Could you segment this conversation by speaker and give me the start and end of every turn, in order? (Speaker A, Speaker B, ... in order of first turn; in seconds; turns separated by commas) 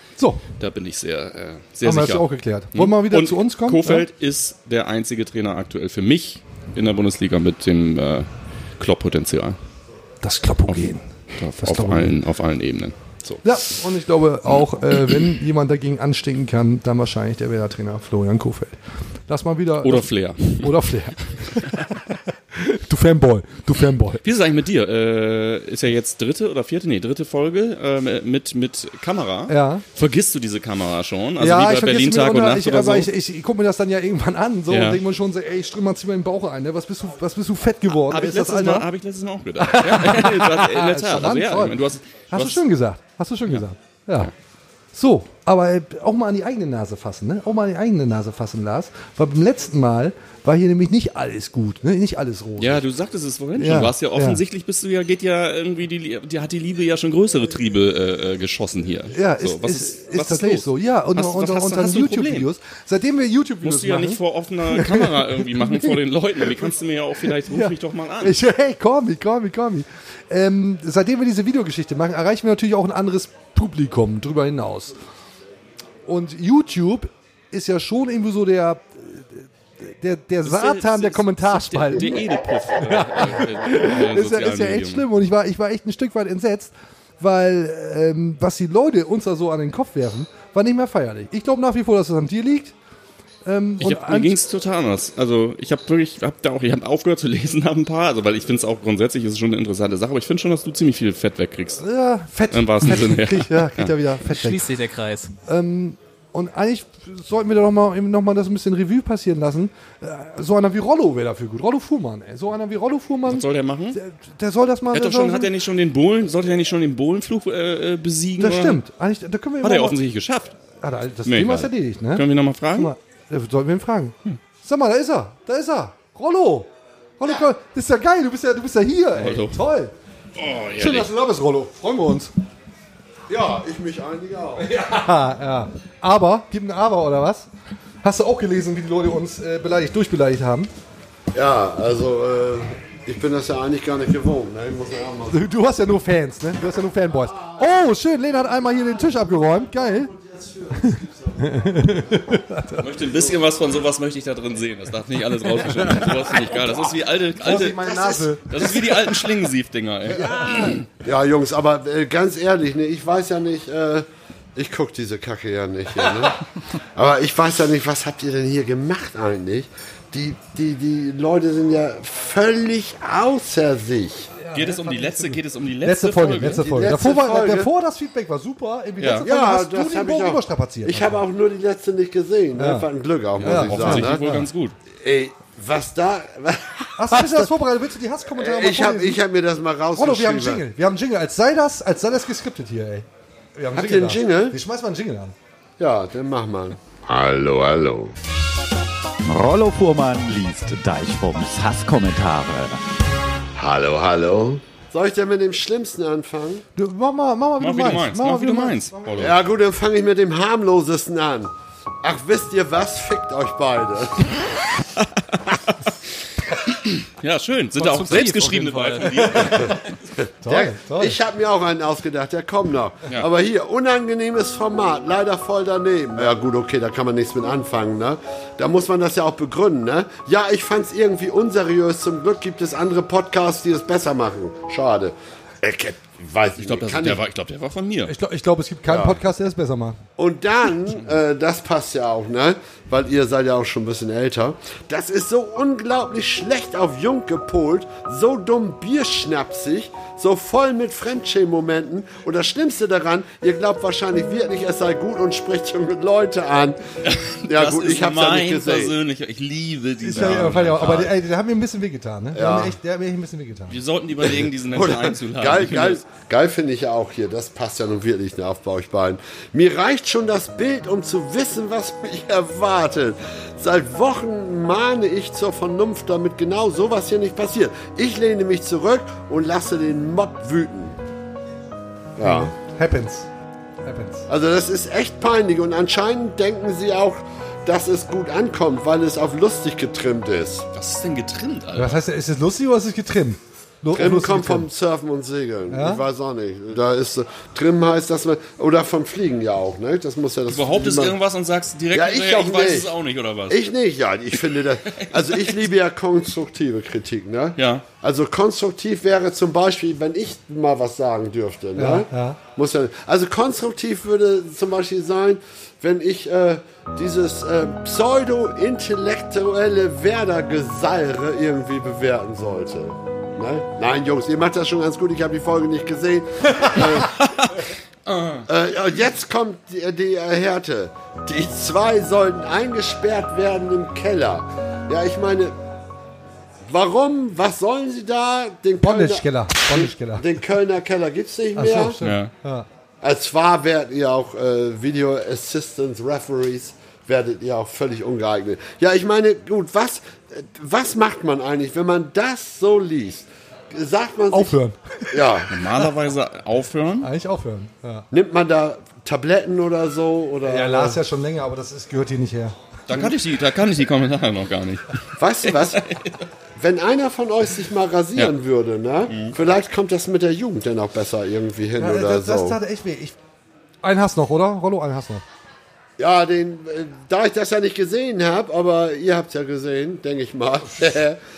Speaker A: 0.2-0.4, Speaker B: 0.6-8.3, Speaker A: 1.8-4.1, Speaker B: 8.8-9.6, Speaker A: 10.2-11.1, Speaker B: 11.4-13.4, Speaker A: 11.6-12.2, Speaker A: 13.4-24.2, Speaker B: 19.8-20.8, Speaker B: 24.2-33.1, Speaker A: 29.5-29.8, Speaker A: 31.4-38.9, Speaker B: 34.7-35.0, Speaker B: 38.0-42.6, Speaker A: 39.6-44.3, Speaker A: 44.9-52.8, Speaker B: 52.6-62.5, Speaker A: 53.6-54.4, Speaker A: 59.1-66.7, Speaker B: 63.6-68.4, Speaker A: 67.2-75.0, Speaker A: 76.0-92.7, Speaker B: 80.4-85.0, Speaker A: 93.4-94.4, Speaker B: 93.8-101.8, Speaker A: 101.8-104.6, Speaker B: 102.5-103.9, Speaker C: 104.2-105.3, Speaker A: 105.5-115.5, Speaker B: 113.2-114.0, Speaker B: 114.9-118.8, Speaker A: 118.4-120.0, Speaker B: 119.6-120.5, Speaker A: 120.8-129.9, Speaker B: 121.2-122.9, Speaker B: 129.2-129.6, Speaker B: 130.3-131.1, Speaker A: 130.8-132.3, Speaker D: 133.3-134.7, Speaker A: 134.6-137.5, Speaker A: 138.0-140.7, Speaker D: 141.3-145.4, Speaker A: 145.3-150.1, Speaker D: 147.3-147.6, Speaker D: 148.5-152.1, Speaker A: 150.8-152.9, Speaker B: 152.8-160.9, Speaker A: 155.6-159.3, Speaker A: 160.1-160.8, Speaker D: 161.0-166.4, Speaker D: 166.9-174.3, Speaker A: 174.4-181.2, Speaker B: 174.5-176.7, Speaker D: 176.6-177.7, Speaker B: 179.0-179.2, Speaker D: 179.2-184.2, Speaker A: 182.6-182.9, Speaker B: 183.4-184.7, Speaker A: 183.4-184.5, Speaker D: 185.0-187.5, Speaker A: 186.9-189.2, Speaker D: 188.3-190.6, Speaker A: 189.9-195.3, Speaker D: 193.7-194.6, Speaker D: 195.8-198.1, Speaker E: 199.2-202.8, Speaker D: 203.6-206.6, Speaker A: 206.8-209.3, Speaker B: 207.6-209.4, Speaker D: 209.2-214.4, Speaker B: 216.7-219.9, Speaker C: 217.8-219.6, Speaker A: 219.0-219.7, Speaker A: 220.4-221.2, Speaker D: 220.4-237.2, Speaker B: 236.6-238.1, Speaker A: 238.1-240.0, Speaker D: 238.9-239.2, Speaker D: 240.2-256.8, Speaker B: 257.0-261.1, Speaker D: 257.5-258.9, Speaker A: 260.0-263.8, Speaker D: 262.3-262.8, Speaker B: 263.7-266.0, Speaker D: 264.7-280.9, Speaker D: 282.2-282.5, Speaker A: 282.2-283.3, Speaker A: 283.8-284.2, Speaker D: 284.3-290.7, Speaker B: 290.7-292.0, Speaker A: 291.8-294.7, Speaker D: 293.9-301.1, Speaker A: 295.7-296.0, Speaker B: 300.5-303.7, Speaker D: 301.9-302.9, Speaker D: 303.5-327.2, Speaker B: 304.9-305.6, Speaker B: 307.6-307.8, Speaker A: 311.8-312.4, Speaker B: 327.1-327.5, Speaker B: 328.1-328.4, Speaker D: 328.4-335.6, Speaker D: 336.6-342.0, Speaker A: 338.8-340.4, Speaker A: 341.5-342.7, Speaker B: 342.0-342.3, Speaker D: 343.0-354.6, Speaker A: 354.3-355.2, Speaker D: 355.1-355.5, Speaker B: 355.5-357.1, Speaker A: 357.0-358.1, Speaker D: 358.1-361.0, Speaker A: 360.4-362.6, Speaker B: 362.9-366.1, Speaker D: 365.2-365.9, Speaker D: 366.6-372.6, Speaker A: 371.8-373.1, Speaker A: 373.8-375.2, Speaker D: 376.0-381.2